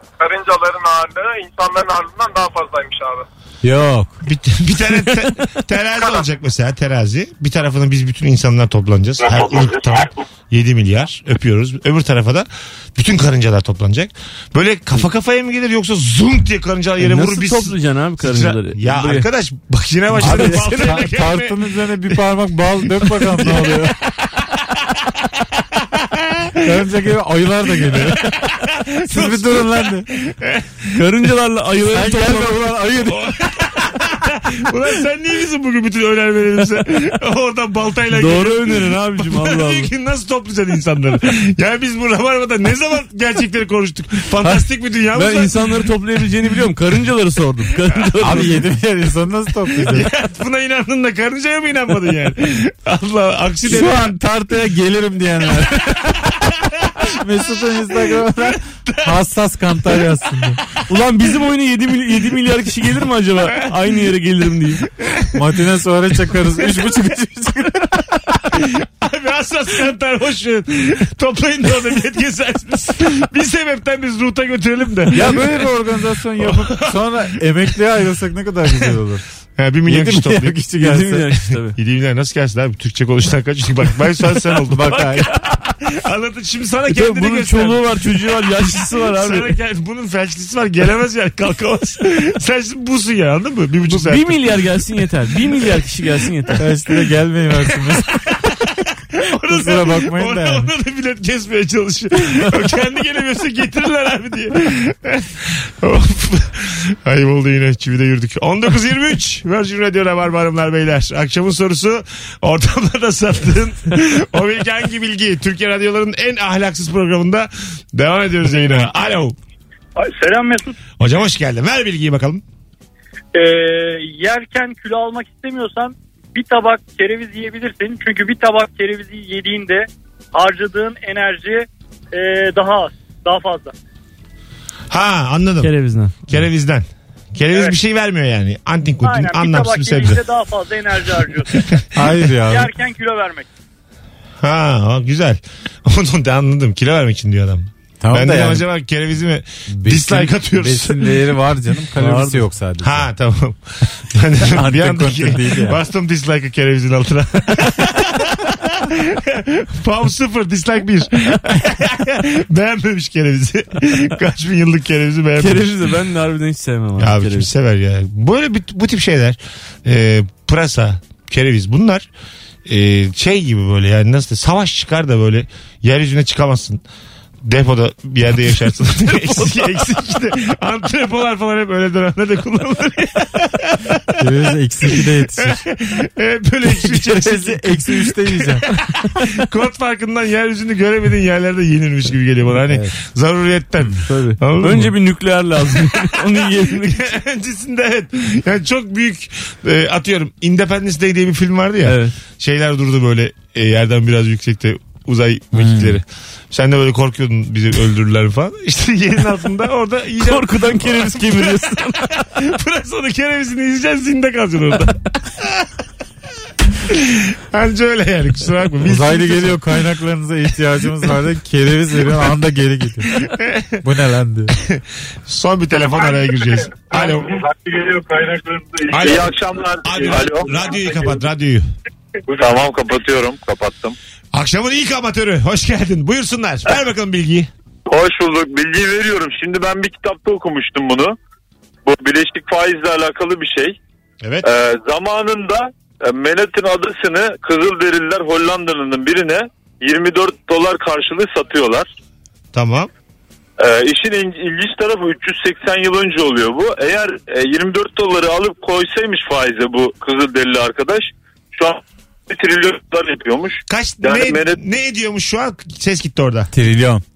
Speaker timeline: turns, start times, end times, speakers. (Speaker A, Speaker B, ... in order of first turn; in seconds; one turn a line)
Speaker A: 0.2-3.2
Speaker B: 3.6-4.2
Speaker C: 4.2-21.6
Speaker D: 17.0-19.3
Speaker D: 20.1-21.1
Speaker B: 20.1-23.9
Speaker C: 23.0-26.7
Speaker B: 26.6-28.4
Speaker C: 28.0-31.0
Speaker B: 29.1-30.1
Speaker D: 30.9-32.6
Speaker B: 31.9-33.4
Speaker C: 33.1-45.8
Speaker D: 38.1-39.9
Speaker D: 45.1-48.5
Speaker C: 48.1-48.5
Speaker B: 48.2-50.1
Speaker C: 49.8-54.1
Speaker B: 53.6-56.4
Speaker C: 56.0-57.1
Speaker B: 57.1-60.6
Speaker C: 58.1-59.1
Speaker D: 60.9-64.8
Speaker C: 64.9-65.4
Speaker B: 65.3-68.6
Speaker C: 68.5-75.7
Speaker B: 75.1-79.2
Speaker C: 76.4-77.0
Speaker C: 79.6-80.6
Speaker B: 79.8-81.4
Speaker D: 80.8-81.8
Speaker C: 81.8-85.1
Speaker B: 84.7-85.3
Speaker D: 84.9-85.6
Speaker C: 85.8-88.1
Speaker D: 86.9-89.5
Speaker C: 89.0-94.4
Speaker D: 93.9-96.7
Speaker B: 96.6-98.5
Speaker C: 97.9-98.4
Speaker C: 99.2-119.4
Speaker B: 99.5-100.7
Speaker E: 120.0-120.8
Speaker C: 121.0-122.4
Speaker E: 123.3-133.7
Speaker C: 134.9-135.7
Speaker D: 135.6-136.1
Speaker C: 136.3-140.2
Speaker E: 137.5-137.8
Speaker E: 139.0-141.6
Speaker B: 141.9-142.7
Speaker E: 142.4-143.5
Speaker C: 144.4-151.1
Speaker B: 148.0-148.7
Speaker B: 149.7-153.1
Speaker D: 152.0-152.4
Speaker C: 152.8-165.7
Speaker B: 154.4-155.8
Speaker D: 165.4-167.5
Speaker C: 167.0-172.1
Speaker C: 172.7-176.8
Speaker C: 177.4-184.2
Speaker D: 179.1-179.9
Speaker B: 184.2-185.6
Speaker C: 184.9-194.9
Speaker B: 186.7-188.6
Speaker B: 192.7-192.9
Speaker B: 194.0-194.4
Speaker D: 194.6-197.1
Speaker C: 195.7-215.7
Speaker D: 201.8-202.1
Speaker B: 205.6-206.0
Speaker D: 210.2-212.2
Speaker C: 216.9-219.6
Speaker B: 218.8-223.1
Speaker C: 223.1-223.7
Speaker B: 223.8-224.5
Speaker C: 224.6-227.4
Speaker F: 227.7-230.7
Speaker C: 228.9-229.3
Speaker C: 229.8-231.7
Speaker F: 232.3-234.0
Speaker C: 234.3-237.5
Speaker F: 237.9-241.2
Speaker F: 241.9-243.8
Speaker C: 244.2-244.5
Speaker F: 244.4-251.9
Speaker C: 252.5-252.9
Speaker F: 253.6-264.6
Speaker C: 263.7-266.5
Speaker B: 266.5-267.0